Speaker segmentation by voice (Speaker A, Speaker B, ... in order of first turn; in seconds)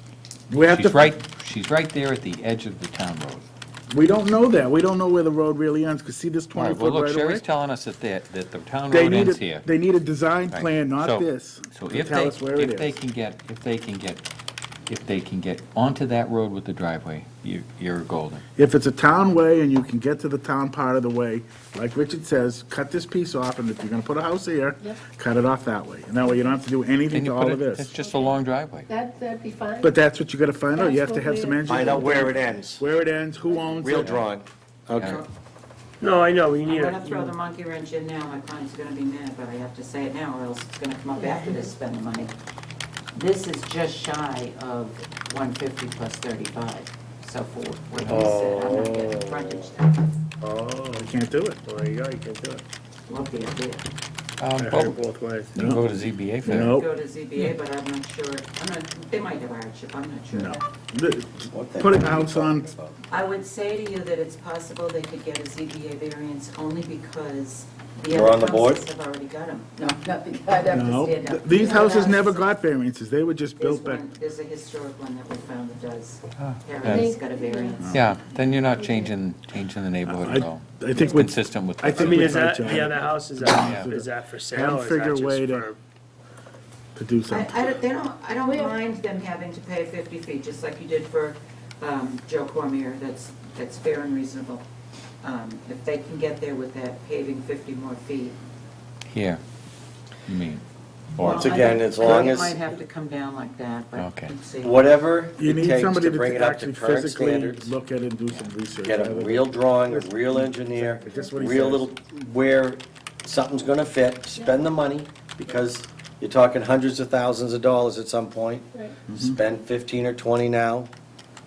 Speaker A: 0.5-1.2, 3.9-7.5, 8.9-13.0, 18.6-27.9, 29.8-34.2, 51.0-51.6, 55.6-55.8, 56.5-56.9, 60.3-62.7, 70.7-74.0, 77.8-78.1, 80.1-85.7, 87.0-87.5, 105.4-112.0, 119.1-119.4
Speaker B: 0.7-3.5, 6.5-9.7, 10.5-14.2, 14.9-18.4, 27.1-28.9, 35.0-35.2, 54.4-55.0, 55.5-56.8, 76.4-77.1, 77.9-82.5, 83.6-83.9, 99.1-99.4, 100.3-100.6, 101.2-101.7, 104.0-104.3
Speaker C: 28.0-28.4, 28.9-29.9, 30.7-32.4, 41.2-41.7, 71.7-71.9, 76.8-77.8, 78.8-79.1, 88.4-88.8, 111.1-111.6, 114.4-114.8
Speaker D: 31.7-32.8, 33.8-35.2, 61.5-63.0, 68.1-68.8, 101.2-102.7, 104.6-107.8, 108.8-120.9
Speaker E: 35.0-35.3, 36.6-42.3, 43.1-50.1, 53.1-53.8, 56.5-60.7, 63.1-72.5, 73.6-78.0, 87.3-94.6, 95.2-98.4, 101.2-105.0
Speaker F: 36.0-37.3, 48.0-49.7, 50.4-51.1, 51.6-52.6, 54.6-55.6, 82.0-85.8